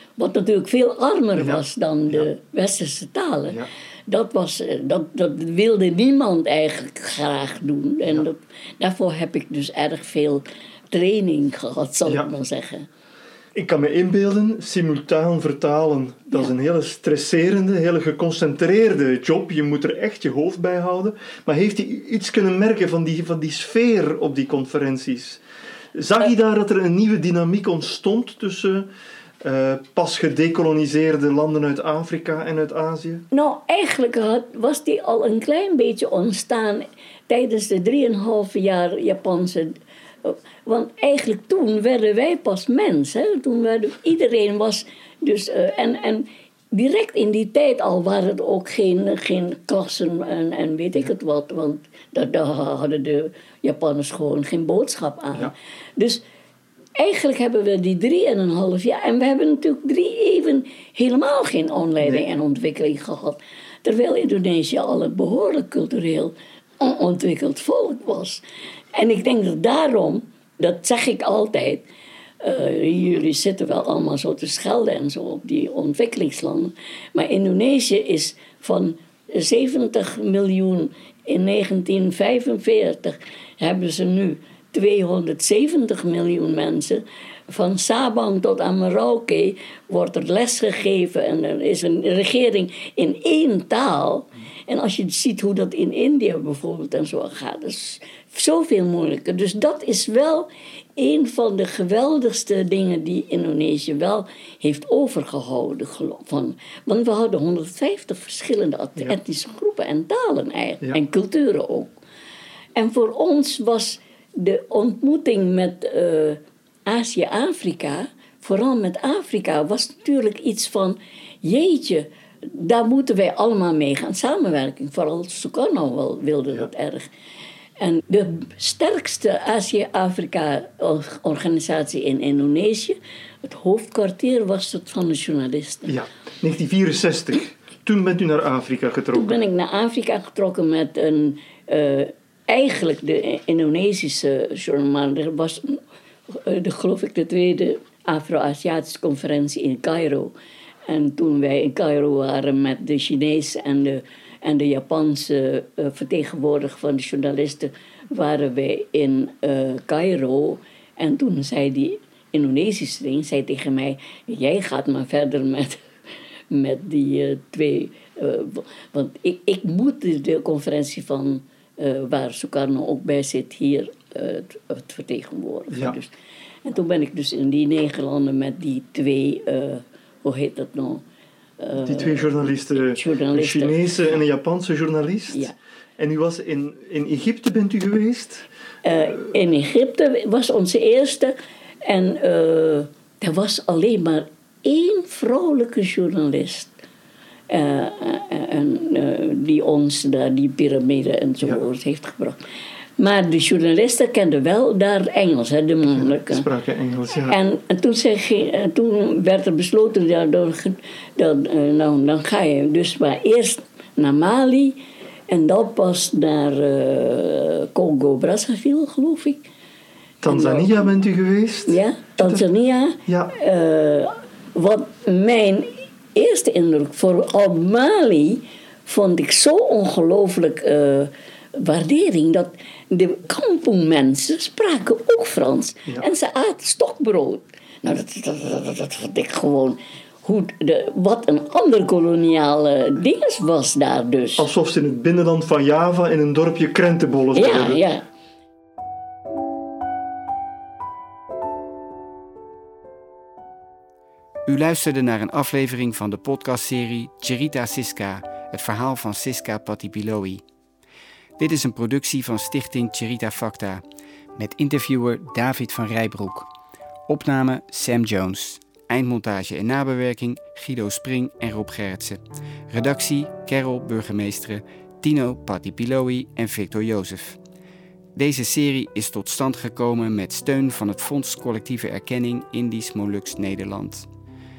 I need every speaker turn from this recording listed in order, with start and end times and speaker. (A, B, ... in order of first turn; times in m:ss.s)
0:00.2-0:12.9 A
0:01.4-0:02.3 B
0:13.5-0:25.4 B
0:25.9-0:28.9 B
0:29.4-0:33.2 B
0:33.3-0:56.2 A
0:57.0-1:08.4 A
1:08.9-1:11.8 A
1:12.4-1:52.0 A
1:52.7-2:07.1 A
2:07.8-2:15.9 A
2:15.9-2:19.4 B
2:19.1-2:30.3 A
2:30.9-2:45.8 A
2:46.5-2:56.1 A
2:56.6-3:01.0 A
3:01.6-3:03.8 A
3:01.8-3:08.4 B
3:08.8-3:11.3 A
3:11.8-3:16.7 A
3:17.5-3:22.4 A
3:23.0-3:26.4 A
3:26.0-3:27.4 B
3:27.3-3:39.5 A
3:40.2-3:42.4 B
3:40.2-3:40.9 A
3:41.7-4:04.5 A
3:43.1-3:43.3 B
4:04.4-4:07.8 B
4:07.3-4:08.0 A
4:14.4-4:20.4 C
4:21.4-4:23.8 C
4:24.4-4:26.5 C
4:27.1-4:37.4 C
4:38.1-4:44.1 C